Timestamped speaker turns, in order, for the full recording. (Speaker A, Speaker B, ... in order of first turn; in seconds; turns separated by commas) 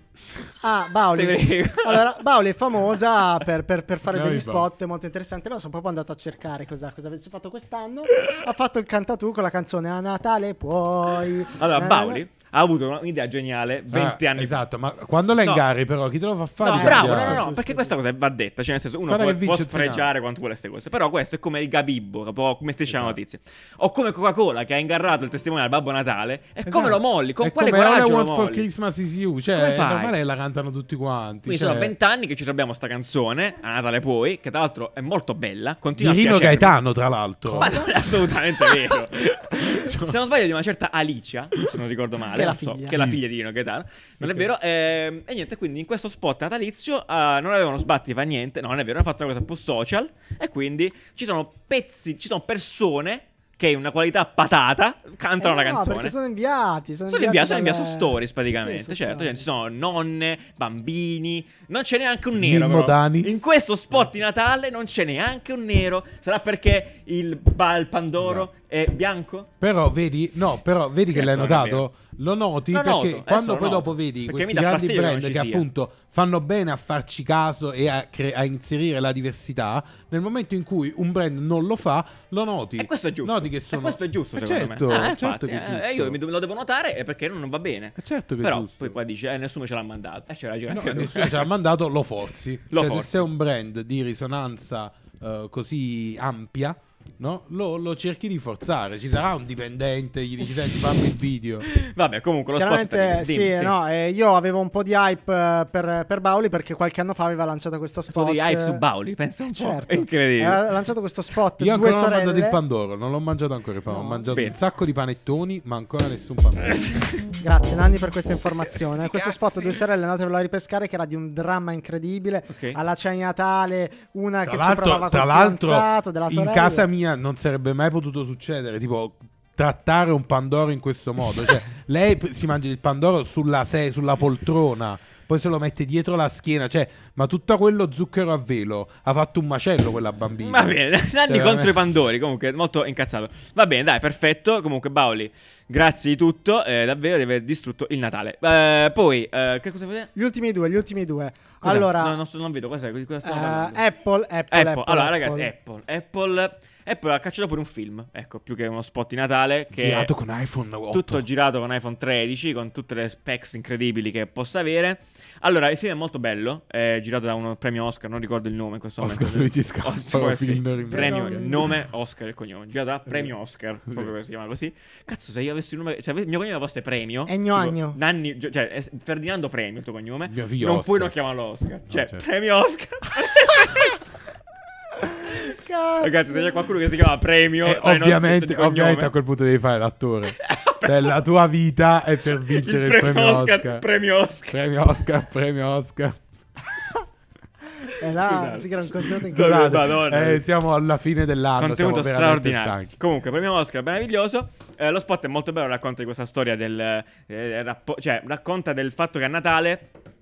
Speaker A: 0.6-12.2, Speaker B: 1.1-2.2, Speaker C: 4.1-4.7, Speaker B: 11.5-14.6, Speaker C: 13.9-17.5, Speaker B: 16.6-28.7, Speaker A: 16.6-17.9, Speaker C: 19.0-20.1, Speaker C: 22.9-23.2, Speaker C: 26.6-31.9, Speaker B: 29.5-30.1, Speaker B: 31.4-36.8, Speaker C: 36.0-37.8, Speaker B: 37.5-56.1, Speaker A: 37.5-37.9, Speaker C: 39.6-40.1, Speaker A: 42.3-43.0, Speaker C: 42.9-43.3, Speaker C: 44.2-44.5, Speaker A: 55.4-59.4, Speaker B: 57.1-69.5, Speaker C: 62.3-63.3, Speaker C: 68.2-68.5, Speaker C: 69.6-86.2, Speaker B: 71.1-71.8, Speaker B: 72.7-75.7, Speaker B: 82.8-91.5, Speaker C: 88.0-89.0, Speaker C: 90.7-101.7, Speaker B: 92.7-93.2, Speaker B: 100.6-100.9, Speaker B: 101.7-103.7, Speaker A: 102.6-108.8, Speaker B: 108.1-110.7, Speaker A: 109.5-112.6, Speaker C: 111.6-116.9, Speaker A: 113.9-114.3, Speaker B: 114.3-114.6, Speaker B: 116.6-117.2, Speaker A: 117.4-126.9, Speaker C: 118.8-119.8, Speaker B: 122.5-122.8, Speaker C: 124.4-141.9, Speaker B: 140.4-150.1, Speaker A: 150.2-152.2, Speaker B: 151.6-153.8, Speaker A: 153.2-155.5, Speaker B: 154.5-160.1, Speaker C: 159.7-161.2, Speaker B: 160.9-184.0, Speaker C: 169.0-171.5, Speaker A: 170.9-171.7, Speaker A: 177.3-178.0, Speaker C: 180.3-181.1, Speaker C: 181.9-182.2, Speaker A: 185.0-186.7, Speaker B: 186.0-189.1, Speaker C: 187.6-193.8, Speaker B: 190.4-191.2, Speaker B: 192.3-194.6, Speaker C: 194.5-196.2, Speaker A: 197.9-199.9, Speaker B: 198.1-200.4, Speaker C: 199.3-202.9, Speaker B: 201.6-209.9